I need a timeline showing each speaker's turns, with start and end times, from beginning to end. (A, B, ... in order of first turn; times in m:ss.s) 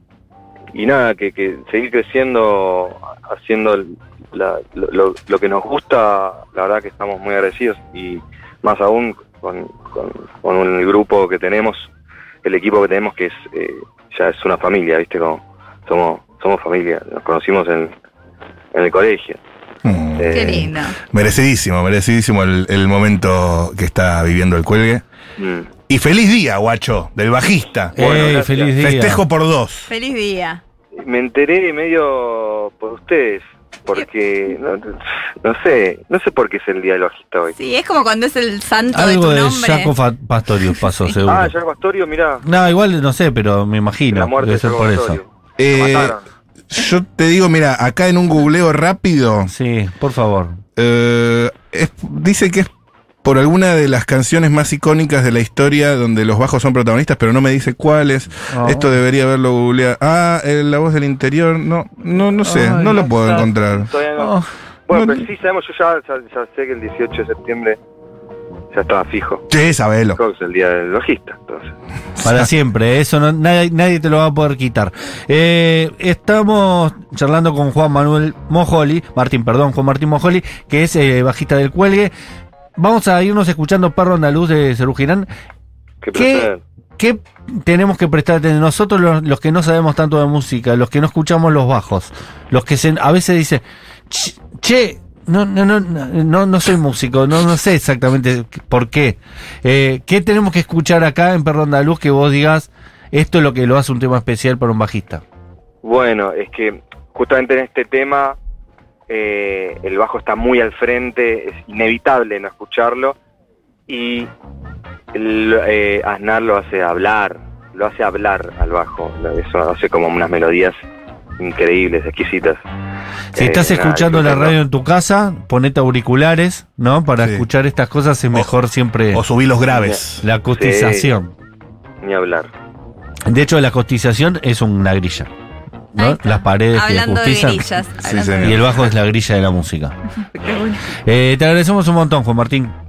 0:00.7-0:11.9 A
0:12.4-0:17.9 A
0:18.7-0:19.4 A
0:19.8-0:25.0 B
0:20.2-0:20.7 A
0:20.3-0:21.0 C
0:25.4-0:25.7 A
0:25.9-0:28.0 B
0:28.0-0:29.2 D
0:28.0-0:28.7 A
0:28.8-0:29.9 B
0:29.9-0:30.6 C
0:31.0-0:37.6 A
0:37.6-0:39.9 C
0:38.9-0:41.5 D
0:41.3-0:42.4 A
0:42.4-0:45.2 D
0:44.1-0:46.2 A
0:45.6-0:46.2 B
0:46.7-0:49.5 B
0:49.5-0:50.6 D
0:50.8-0:52.7 B
0:53.2-1:03.9 B
0:58.5-0:58.9 D
1:02.5-1:03.0 D
1:02.5-1:04.3 A
1:04.2-1:04.5 D
1:04.9-1:07.8 A
1:04.9-1:05.2 B
1:08.7-1:09.5 A
1:09.5-1:10.2 B
1:10.2-1:11.7 A
1:12.2-1:12.5 B
1:12.2-1:22.1 D
1:22.8-1:25.3 D
1:26.0-1:26.6 A
1:26.2-1:45.2 D
1:45.8-1:48.4 A
1:49.1-1:53.2 A
1:53.9-1:54.3 A
1:55.1-2:00.7 A
2:01.4-2:02.6 A
2:03.4-2:04.6 A
2:03.4-2:09.2 D
2:07.2-2:07.5 B
2:09.1-2:10.2 B
2:09.7-2:10.0 A
2:10.2-2:11.3 D
2:10.5-2:11.1 A
2:12.0-2:12.5 A
2:13.3-2:15.3 D
2:16.0-2:17.6 D
2:16.0-2:18.8 C
2:18.0-2:18.7 B
2:18.4-2:20.0 D
2:20.3-2:20.9 C
2:21.0-2:22.8 D